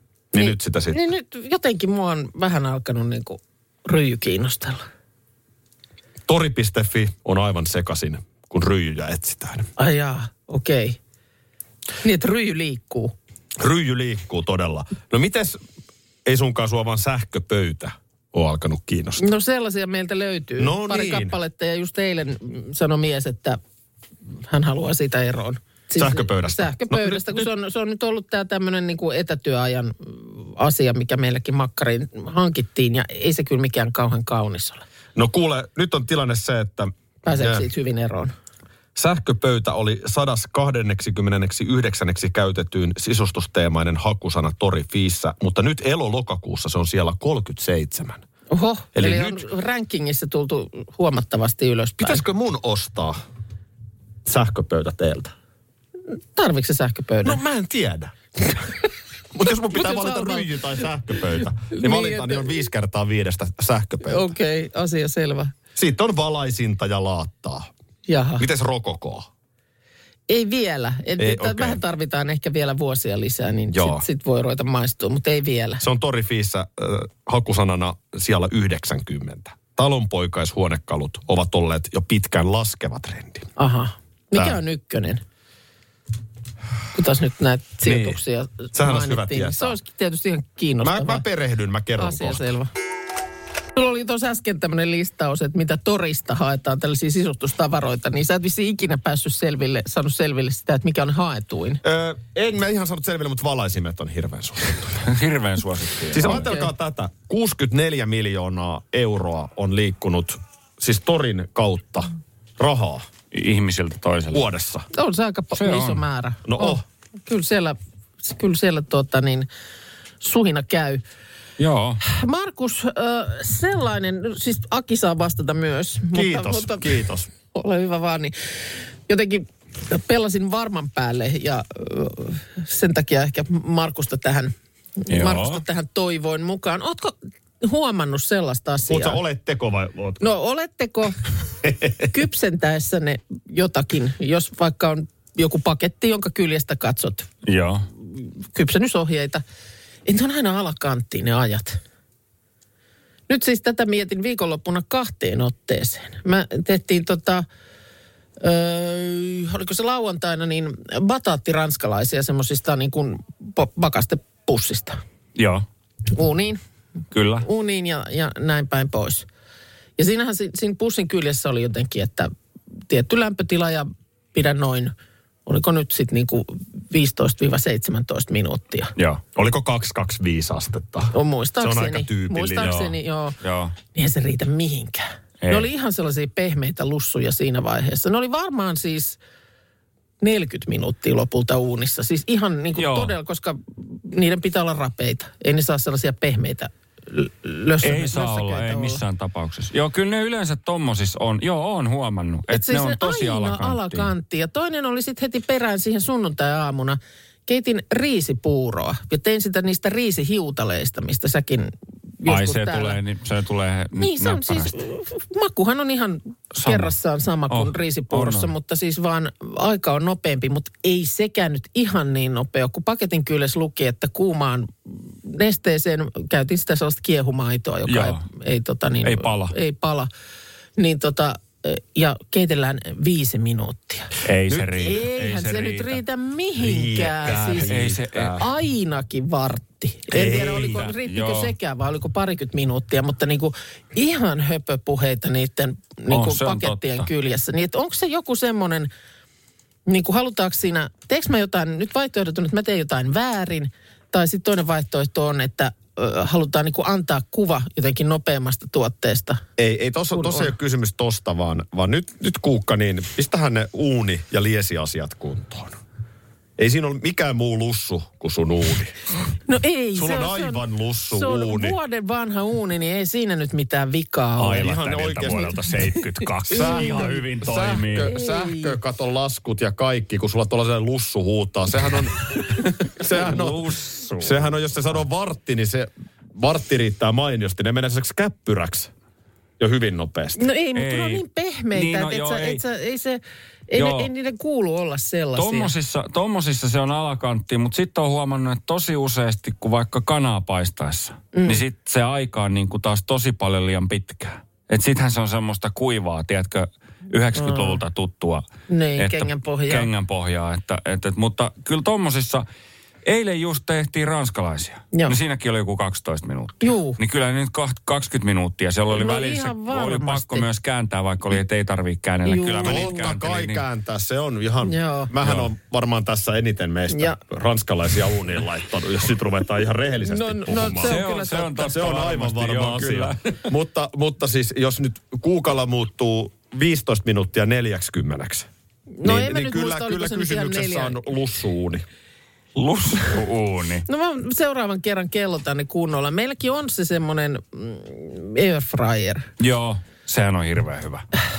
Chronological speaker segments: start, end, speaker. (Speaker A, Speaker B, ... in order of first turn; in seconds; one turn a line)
Speaker A: 0.3-1.0
Speaker B: 0.3-4.8
Speaker A: 6.2-9.7
Speaker B: 9.8-11.0
Speaker B: 12.0-13.1
Speaker A: 13.6-15.6
Speaker A: 16.2-19.3
Speaker B: 19.2-23.6
Speaker A: 20.6-21.4
Speaker B: 24.4-34.8
Speaker A: 26.0-27.5
Speaker A: 35.1-37.6
Speaker B: 37.2-38.3
Speaker A: 38.9-48.2
Speaker B: 48.5-52.2
Speaker A: 48.9-49.4
Speaker A: 52.0-53.2
Speaker A: 54.2-55.3
Speaker B: 56.3-57.4
Speaker A: 57.2-58.7
Speaker A: 59.3-64.3
Speaker B: 59.7-60.5
Speaker B: 61.7-62.5
Speaker B: 64.0-65.5
Speaker A: 65.8-67.7
Speaker B: 68.1-68.5
Speaker A: 68.4-69.3
Speaker B: 70.3-75.8
Speaker A: 71.2-71.8
Speaker A: 73.7-74.0
Speaker A: 75.8-83.5
Speaker B: 83.6-85.2
Speaker B: 86.9-91.2
Speaker A: 87.8-88.2
Speaker A: 88.7-89.8
Speaker A: 90.8-92.5
Speaker B: 92.0-92.7
Speaker B: 93.7-101.8
Speaker A: 101.8-105.0
Speaker C: 105.0-106.4
Speaker A: 106.1-113.1
Speaker B: 106.2-106.7
Speaker C: 113.3-114.4
Speaker A: 114.3-114.9
Speaker B: 114.9-119.5
Speaker C: 115.5-116.0
Speaker A: 116.5-116.8
Speaker B: 120.2-121.0
Speaker C: 121.6-122.0
Speaker B: 122.0-127.0
Speaker A: 126.1-127.3
Speaker B: 127.5-128.3
Speaker B: 129.1-139.2
Speaker C: 135.1-135.6
Speaker A: 138.9-140.2
Speaker B: 140.2-141.3
Speaker A: 141.6-142.0
Speaker B: 142.0-147.3
Speaker C: 147.4-147.8
Speaker B: 148.1-149.4
Speaker B: 150.1-151.8
Speaker B: 153.3-157.4
Speaker B: 158.4-165.0
Speaker C: 165.3-165.6
Speaker B: 166.1-166.6
Speaker C: 167.1-167.4
Speaker B: 167.4-169.3
Speaker B: 170.0-172.3
Speaker B: 172.9-174.9
Speaker B: 175.4-178.9
Speaker C: 178.9-179.2
Speaker A: 179.3-182.9
Speaker B: 181.1-183.3
Speaker C: 182.6-183.7
Speaker B: 183.9-189.2
Speaker C: 185.4-185.7
Speaker B: 190.2-199.0
Speaker C: 192.8-193.1
Speaker C: 197.8-204.1
Speaker B: 202.5-213.0
Speaker C: 212.2-214.7
Speaker B: 214.0-230.1
Speaker C: 216.6-216.9
Speaker C: 217.5-218.5
Speaker C: 227.9-228.2
Speaker C: 229.0-229.6
Speaker B: 230.8-234.1
Speaker C: 234.2-236.0
Speaker B: 234.7-248.9
Speaker A: 236.6-238.4
Speaker C: 237.2-238.4
Speaker A: 240.1-240.9
Speaker C: 240.5-241.5
Speaker C: 246.1-247.1
Speaker B: 249.9-259.4
Speaker A: 259.6-265.8
Speaker B: 260.1-260.5
Speaker A: 266.6-268.9
Speaker B: 269.5-275.5
Speaker A: 269.9-271.8
Speaker C: 274.4-278.1
Speaker A: 274.4-283.6
Speaker B: 276.2-277.2
Speaker B: 278.0-278.7
Speaker C: 282.8-284.6
Speaker A: 284.2-288.9
Speaker A: 289.6-290.4
Speaker B: 290.4-295.7
Speaker C: 290.7-292.6
Speaker C: 293.8-294.1
Speaker C: 295.4-312.4
Speaker B: 301.3-301.6
Speaker B: 307.3-307.8
Speaker B: 308.7-309.9
Speaker C: 313.0-323.6
Speaker B: 316.6-317.0
Speaker B: 318.9-320.5
Speaker B: 322.2-323.0
Speaker A: 322.6-331.0
Speaker B: 324.6-325.1
Speaker C: 325.2-325.5
Speaker B: 326.9-327.2
Speaker B: 330.0-331.8
Speaker C: 330.6-333.4
Speaker A: 331.6-338.5
Speaker B: 338.9-341.0
Speaker A: 339.0-341.9
Speaker C: 342.6-343.8
Speaker B: 343.9-349.3
Speaker C: 349.4-351.1